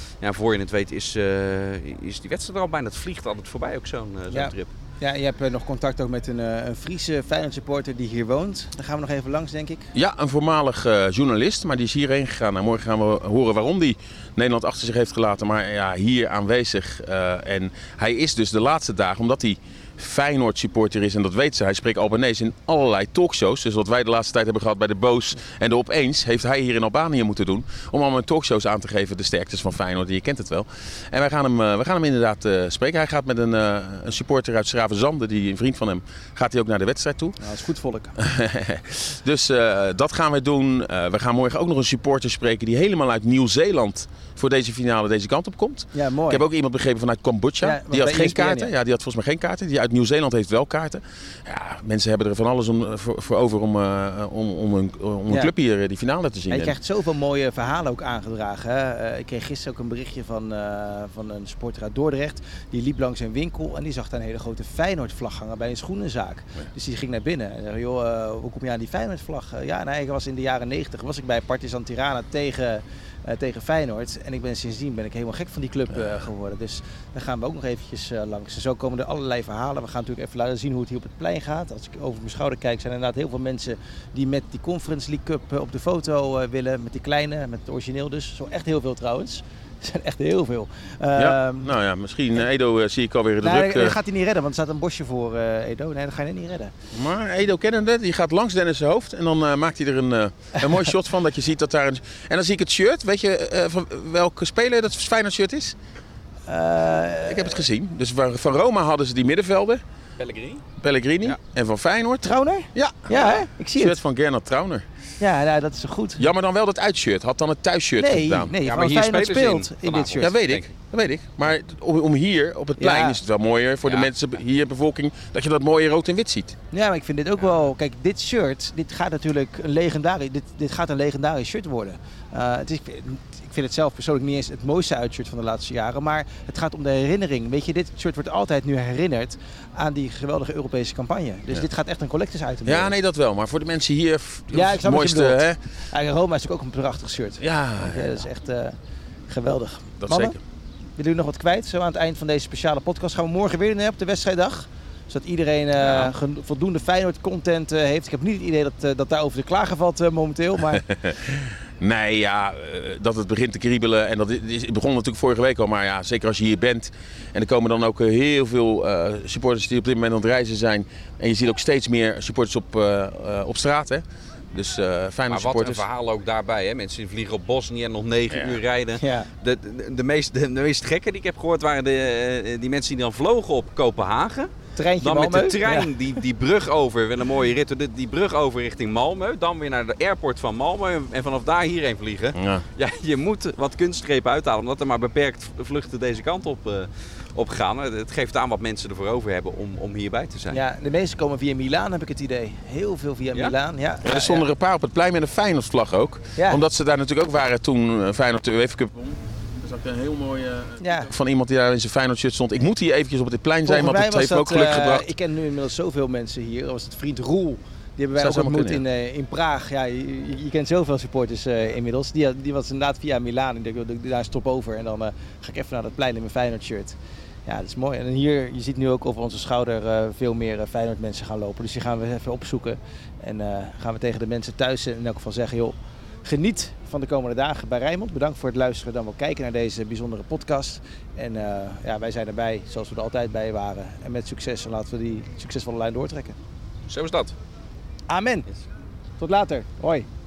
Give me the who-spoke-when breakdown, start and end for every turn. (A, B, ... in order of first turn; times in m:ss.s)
0:00.2-0:04.7 A
0:04.3-0:09.9 B
0:09.9-0:37.4 C
0:37.4-0:38.2 B
0:38.2-0:56.8 C
0:45.9-0:46.5 B
0:47.6-0:48.7 B
0:56.5-1:31.7 B
1:31.2-1:34.0 C
1:33.4-1:36.7 B
1:36.9-1:45.8 C
1:46.5-1:47.6 B
1:47.2-1:49.8 C
1:50.2-1:50.6 A
1:50.8-1:54.8 C
1:52.2-1:54.0 B
1:55.2-1:56.2 B
1:56.2-1:58.5 C
1:58.0-2:00.3 B
1:58.6-2:00.7 A
2:00.2-2:06.6 C
2:02.8-2:03.2 B
2:03.8-2:04.1 A
2:06.7-2:22.9 B
2:22.6-2:25.6 C
2:24.5-2:28.8 B
2:27.4-2:28.2 C
2:29.3-2:30.4 B
2:30.0-2:30.4 C
2:31.0-2:40.8 B
2:35.8-2:36.1 C
2:40.9-2:55.8 C
2:55.3-3:04.5 A
2:58.3-2:58.6 C
2:59.0-2:59.3 B
3:04.8-3:06.0 B
3:05.0-3:20.6 A
3:12.4-3:12.6 C
3:20.5-3:24.5 B
3:24.0-3:35.1 C
3:26.4-3:26.6 B
3:30.8-3:31.1 B
3:33.6-4:06.4 B
3:38.2-3:38.8 C
4:06.9-4:07.3 A
4:08.1-4:08.5 B
4:09.2-4:10.1 B